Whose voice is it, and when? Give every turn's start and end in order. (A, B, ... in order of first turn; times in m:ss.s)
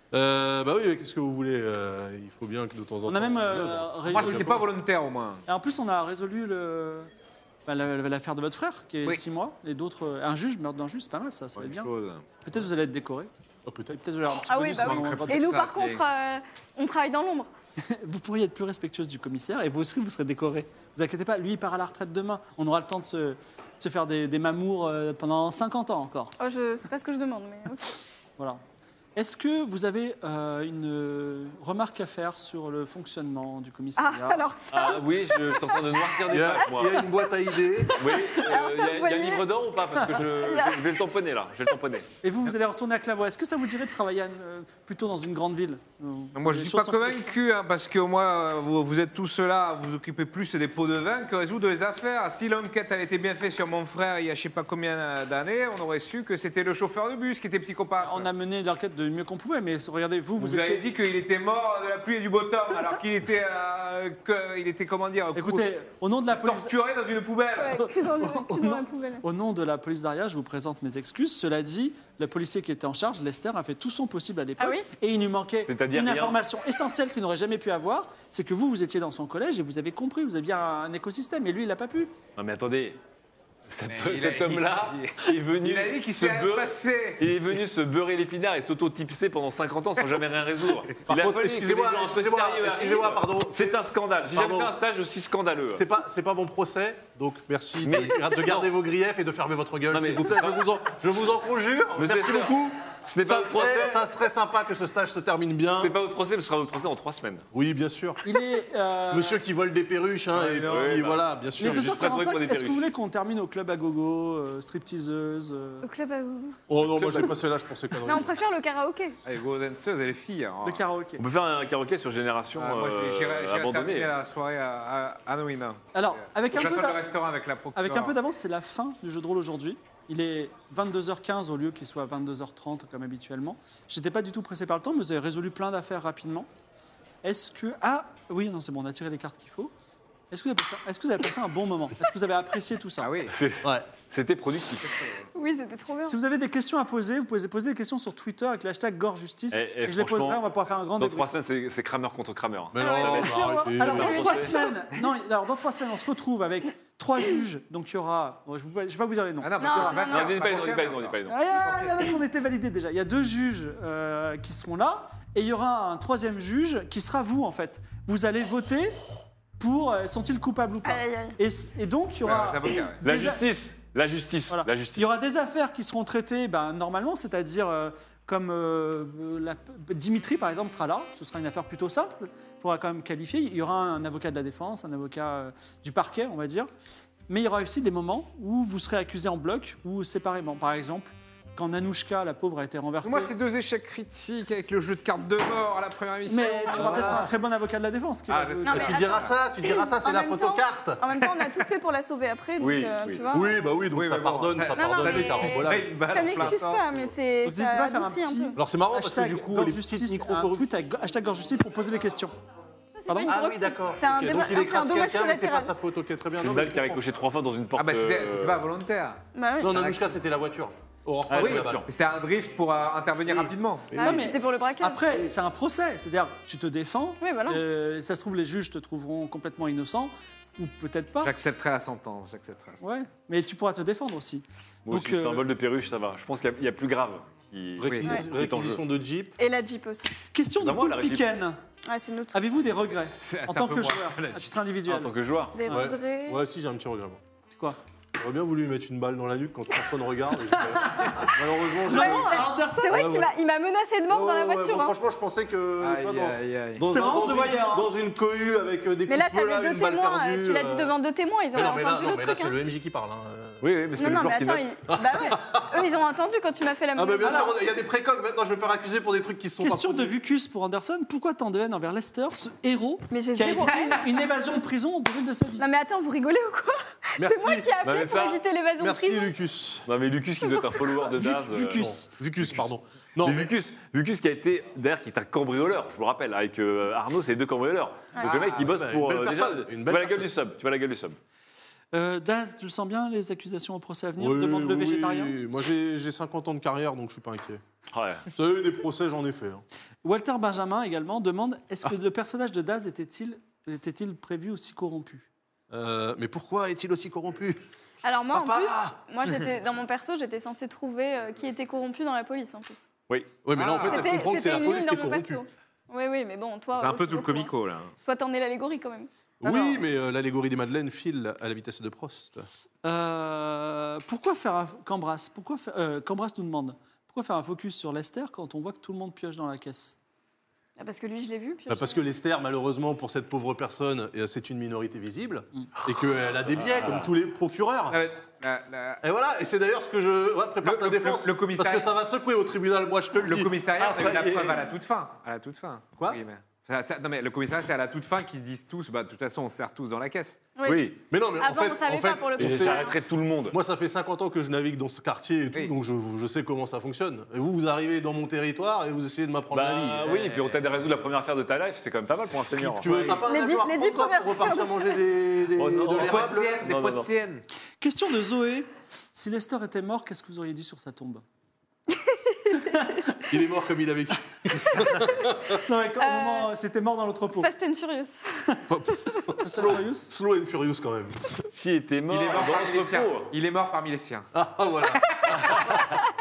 0:00.1-0:04.7 A
0:03.1-0:04.6 B
0:04.1-0:05.4 C
0:05.5-0:07.1 B
0:07.7-0:11.9 B
0:11.6-0:12.2 C
0:12.4-0:13.3 B
0:13.7-0:14.0 A
0:13.9-0:15.5 B
0:14.4-0:17.5 D
0:14.8-0:16.0 C
0:17.8-0:26.3 B
0:26.4-0:28.0 D
0:29.2-0:34.4 B
0:34.0-0:36.2 D
0:34.7-0:37.1 E
0:36.3-0:38.0 A
0:38.0-0:42.1 E
0:38.1-0:39.5 D
0:40.2-0:40.9 D
0:42.2-0:47.3 B
0:46.4-0:58.3 C
0:58.0-1:00.8 B
1:00.4-1:05.7 C
1:05.4-1:06.7 B
1:06.3-1:07.8 C
1:07.6-1:09.2 D
1:07.8-1:22.2 B
1:14.6-1:14.9 D
1:15.6-1:16.4 E
1:22.4-1:23.0 E
1:23.7-1:35.8 E
1:23.9-1:27.2 C
1:31.1-1:34.8 A
1:35.7-1:46.0 A
1:37.8-1:38.7 E
1:39.9-1:40.7 E
1:42.0-1:44.0 E
1:45.8-1:47.4 E
1:47.5-1:48.2 A
1:48.2-1:49.4 B
1:49.1-1:52.2 A
1:50.3-1:51.1 C
1:50.7-1:52.9 E
1:51.6-1:55.9 B
1:55.8-1:56.6 D
1:56.7-1:58.4 A
1:56.8-1:57.4 E
1:58.0-1:59.2 D
1:59.2-2:00.8 C
2:00.6-2:01.2 B
2:01.2-2:04.1 E
2:02.6-2:08.2 C
2:05.9-2:07.0 B
2:07.8-2:16.5 B
2:17.2-2:19.7 B
2:20.3-2:23.1 B
2:23.0-2:23.3 C
2:23.3-2:24.9 E
2:25.3-2:26.2 D
2:26.1-2:31.3 B
2:29.5-2:30.4 E
2:31.0-2:34.5 E
2:32.7-2:34.4 A
2:32.8-2:34.7 D
2:33.8-2:40.1 B
2:39.4-2:42.1 C
2:39.6-2:40.3 D
2:40.1-2:41.4 E
2:41.3-2:49.0 B
2:49.6-2:53.4 B
2:50.8-2:51.4 D
2:52.2-2:53.0 C
2:53.0-2:55.1 E
2:54.5-3:06.7 B
3:07.3-3:13.3 B
3:13.0-3:17.3 C
3:16.3-3:18.9 B
3:16.5-3:17.3 D
3:18.3-3:19.3 C
3:18.7-3:23.6 D
3:18.7-3:21.0 A
3:21.1-3:21.6 C
3:22.6-3:23.2 E
3:23.3-3:26.6 A
3:23.9-3:27.1 C
3:24.7-3:28.6 D
3:27.4-3:32.3 B
3:28.6-3:30.7 A
3:33.0-3:35.7 D
3:33.1-3:33.3 B
3:33.3-3:37.1 A
3:36.4-3:38.6 E
3:37.8-3:40.2 C
3:39.3-3:39.8 D
3:39.6-3:41.9 A
3:41.3-3:41.9 E
3:41.3-3:44.0 C
3:43.2-3:44.3 A
3:43.9-3:45.3 D
3:44.0-3:51.3 B
3:47.2-3:47.6 D
3:51.2-3:52.8 C
3:52.8-3:55.5 B
3:54.9-3:58.8 E
3:57.8-3:59.3 A
3:57.8-3:58.1 C
3:59.4-4:00.2 D
4:00.3-4:01.6 B
4:00.6-4:01.3 E
4:01.9-4:02.4 D
4:02.3-4:05.1 B
4:03.2-4:04.5 C
4:04.9-4:05.6 E
4:05.5-4:06.4 D
4:05.7-4:05.9 B
4:05.7-4:07.2 A
4:08.2-4:13.3 A
4:10.5-4:11.3 B
4:11.8-4:14.9 D
4:11.8-4:13.1 B
4:14.1-4:20.9 A
4:15.8-4:16.8 C
4:16.9-4:17.9 B
4:19.1-4:22.5 D
4:21.5-4:23.6 A
4:23.6-4:24.8 E
4:24.0-4:27.5 D
4:24.9-4:25.8 A
4:27.0-4:30.1 A
4:27.2-4:27.5 B
4:29.6-4:35.6 B
4:33.1-4:34.2 D
4:35.6-4:39.3 D
4:37.2-4:37.7 A
4:37.8-4:38.4 E
4:38.8-4:39.9 A
4:39.9-4:41.9 E
4:40.5-4:41.0 D
4:41.1-4:42.1 B
4:41.8-4:43.5 A
4:43.2-4:51.2 E
4:48.2-4:48.4 D
4:48.3-4:50.3 A
4:51.9-4:55.3 B
4:54.2-4:57.6 A
4:57.9-4:58.2 E
4:58.3-4:59.6 A
5:00.0-5:05.3 B
5:05.7-5:07.6 A
5:08.0-5:12.8 D
5:08.3-5:09.0 A
5:13.1-5:13.4 E
5:13.4-5:15.4 A
5:13.5-5:14.1 C
5:13.8-5:19.1 D
5:16.8-5:17.9 C
5:19.4-5:22.5 A
5:19.4-5:19.8 B
5:22.8-5:30.0 B
5:30.8-5:32.0 D
5:31.7-5:38.0 A
5:36.6-5:37.1 E
5:37.9-5:39.0 C
5:39.0-5:43.5 A
5:40.6-5:41.9 C
5:43.2-5:50.4 C
5:43.8-5:44.7 E
5:50.6-5:53.0 D
5:50.6-5:51.0 E
5:51.1-5:52.9 A
5:52.4-5:53.6 E
5:53.5-6:00.6 A
5:59.5-6:03.1 E
6:02.4-6:06.6 A
6:02.8-6:03.2 C
6:03.2-6:05.0 D
6:05.6-6:07.1 E
6:05.9-6:07.4 C
6:07.8-6:11.2 B
6:11.9-6:12.6 D
6:12.5-6:13.1 B
6:13.3-6:15.6 A
6:15.6-6:17.5 B
6:16.0-6:16.5 D
6:17.4-6:18.4 D
6:18.7-6:21.2 A
6:19.4-6:20.1 B
6:21.5-6:23.3 E
6:22.1-6:24.3 C
6:24.4-6:25.8 A
6:24.9-6:25.6 C
6:25.3-6:25.9 E